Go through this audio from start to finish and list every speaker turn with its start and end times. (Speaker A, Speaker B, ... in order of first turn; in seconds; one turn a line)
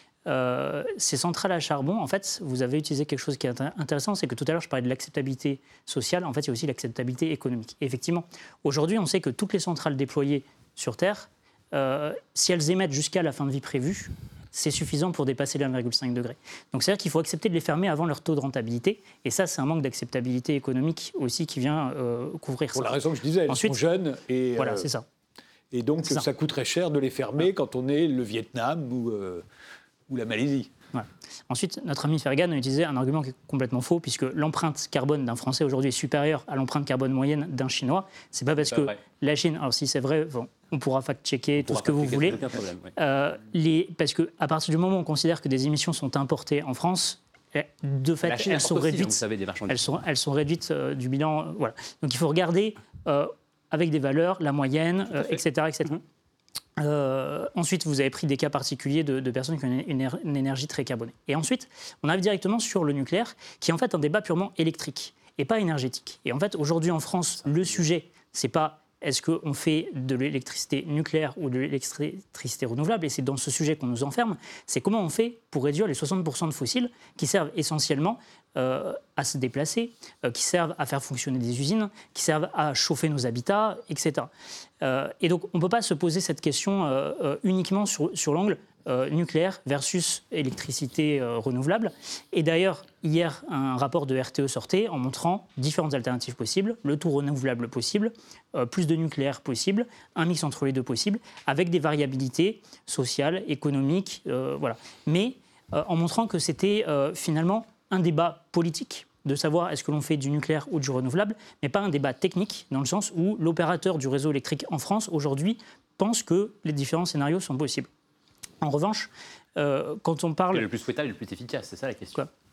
Speaker A: 0.2-23.8
Speaker B: 22.7-24.9
Speaker A: 24.6-25.0
Speaker B: 25.7-29.4
Speaker B: 30.1-30.7
Speaker A: 30.9-42.4
Speaker C: 38.6-39.0
Speaker C: 41.6-42.9
Speaker A: 43.0-56.0
Speaker C: 48.2-49.9
Speaker C: 55.1-55.4
Speaker A: 56.8-84.3
Speaker A: 84.8-117.9
Speaker A: 118.6-120.7
Speaker C: 120.5-122.2